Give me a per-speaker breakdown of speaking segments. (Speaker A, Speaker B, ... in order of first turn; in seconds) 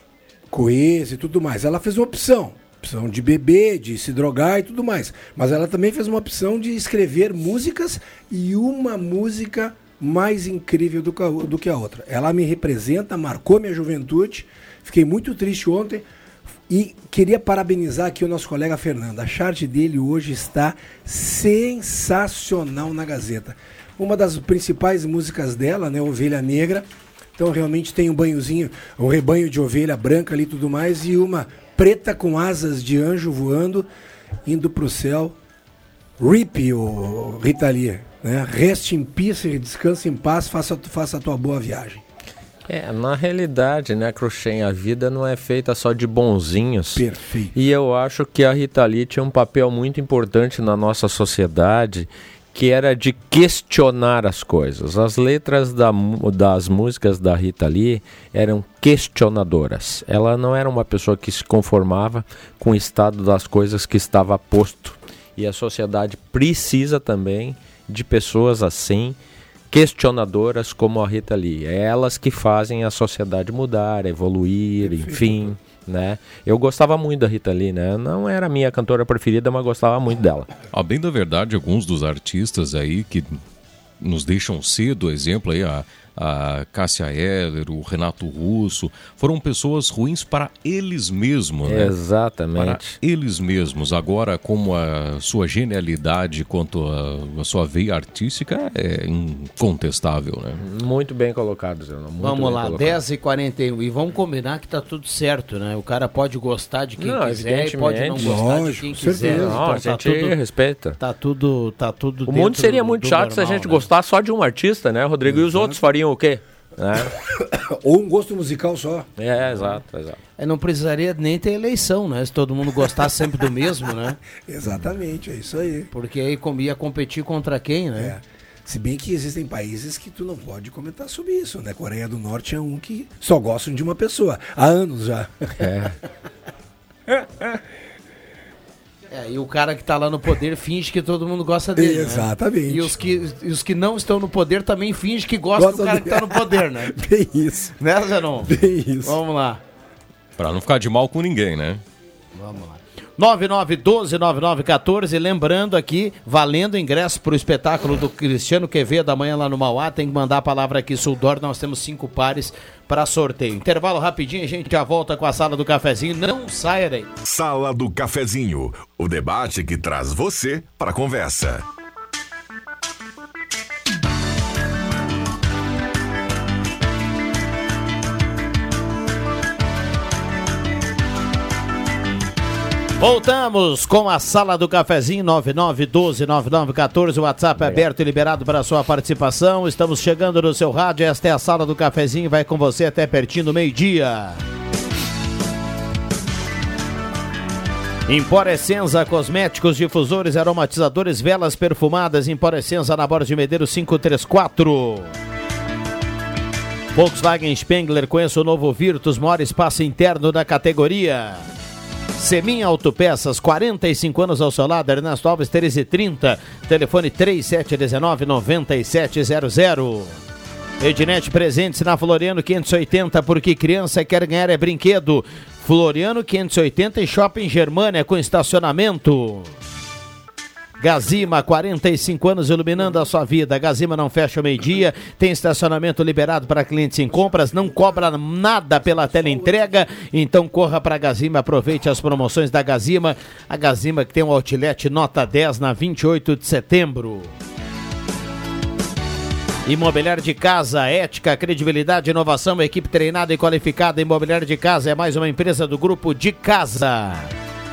Speaker A: 0.5-16.1, 16.7-33.9, 34.4-35.3, 36.2-42.0, 46.9-47.5, 74.8-75.5, 108.2-109.6, 115.3-115.8, 117.3-119.1, 124.4-125.9, 128.0-135.8, 137.1-137.6, 141.8-142.9, 145.6-147.8, 148.5-149.2
Speaker B: 42.7-69.2, 69.7-80.5, 91.6-93.0, 100.6-103.0, 107.0-108.4, 109.1-111.0, 112.3-117.1, 119.2-120.2, 135.6-135.9, 187.6-187.8
Speaker C: 80.7-83.4, 84.0-91.9, 92.5-100.6, 150.4-151.8
Speaker D: 102.2-110.3, 111.0-113.8, 120.4-124.2, 125.9-128.1, 139.1-146.9, 147.8-149.6, 152.3-167.1, 183.0-194.4, 198.1-205.1, 206.9-211.4, 212.2-220.2, 220.8-229.5, 230.8-247.3, 249.6-257.3
Speaker E: 167.2-171.7